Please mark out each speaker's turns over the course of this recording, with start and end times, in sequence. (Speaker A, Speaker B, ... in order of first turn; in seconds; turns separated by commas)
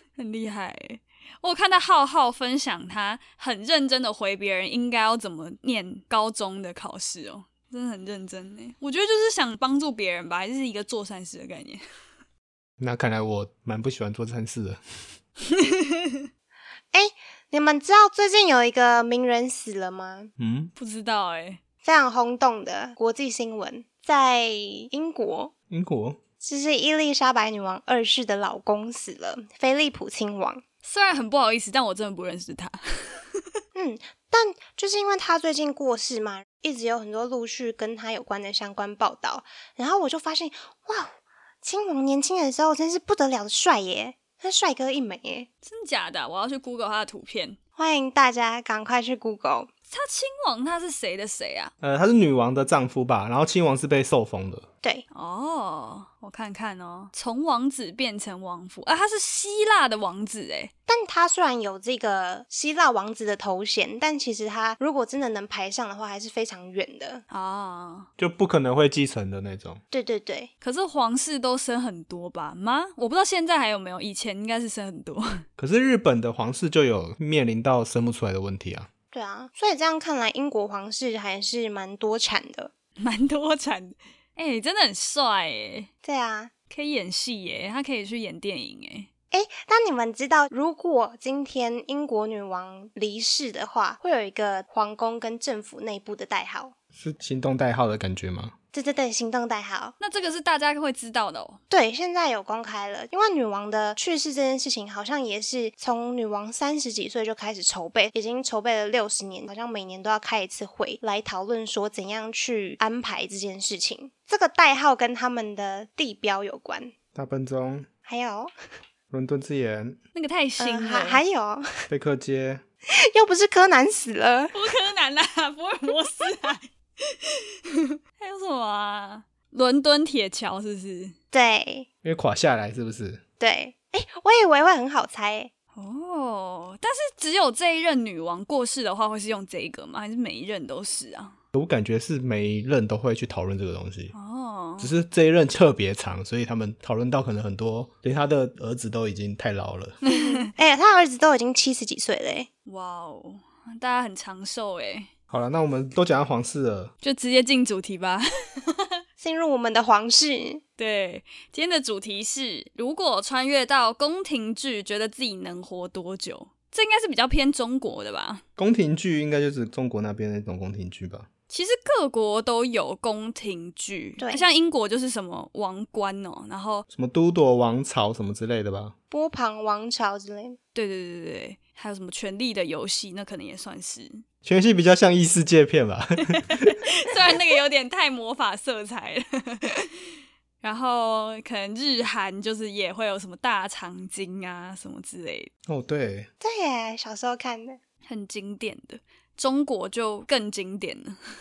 Speaker A: 0.1-11.8, Speaker B: 12.8-14.8, Speaker A: 15.5-16.2, Speaker C: 16.9-20.3, Speaker B: 20.4-20.7, Speaker A: 20.8-21.6, Speaker C: 21.8-25.5, Speaker B: 25.7-26.2, Speaker C: 26.4-30.6, Speaker A: 30.8-33.4, Speaker C: 33.7-41.1, Speaker C: 41.6-45.5, Speaker A: 45.6-47.6, Speaker C: 47.8-49.7, Speaker A: 49.9-51.7, Speaker B: 51.8-54.7, Speaker A: 55.1-60.7, Speaker C: 60.9-67.2, Speaker A: 67.3-68.1, Speaker B: 68.2-69.8, Speaker C: 69.9-70.5, Speaker A: 70.6-75.4, Speaker B: 75.6-78.9, Speaker C: 79.1-82.7, Speaker A: 83.0-85.9, Speaker C: 86.0-86.5, Speaker A: 86.7-89.1, Speaker C: 89.3-96.7, Speaker B: 97.0-98.5, Speaker C: 98.7-99.9, Speaker A: 100.0-101.6, Speaker C: 101.7-116.9, Speaker B: 117.1-117.9, Speaker C: 118.0-118.5, Speaker B: 119.1-120.0, Speaker A: 120.1-121.2, Speaker C: 120.6-121.8, Speaker B: 121.9-122.6, Speaker C: 122.9-124.7, Speaker A: 124.5-126.7, Speaker A: 128.2-131.1, Speaker C: 131.3-131.9, Speaker B: 132.0-133.2, Speaker C: 133.4-135.5, Speaker A: 135.7-141.4, Speaker B: 141.5-144.1, Speaker A: 144.1-144.9, Speaker B: 144.8-149.9, Speaker A: 150.1-150.5, Speaker C: 150.1-152.5, Speaker A: 152.7-155.1, Speaker B: 155.3-156.9, Speaker A: 157.0-158.9, Speaker C: 159.2-160.6, Speaker A: 160.8-168.4, Speaker B: 168.6-171.3, Speaker A: 171.5-176.8, Speaker C: 174.2-174.4, Speaker B: 176.9-178.9, Speaker C: 179.1-180.6, Speaker A: 180.7-184.2, Speaker B: 184.4-186.8, Speaker A: 186.3-189.9, Speaker A: 190.6-195.5, Speaker B: 195.7-196.3, Speaker C: 196.4-197.8, Speaker A: 198.0-201.2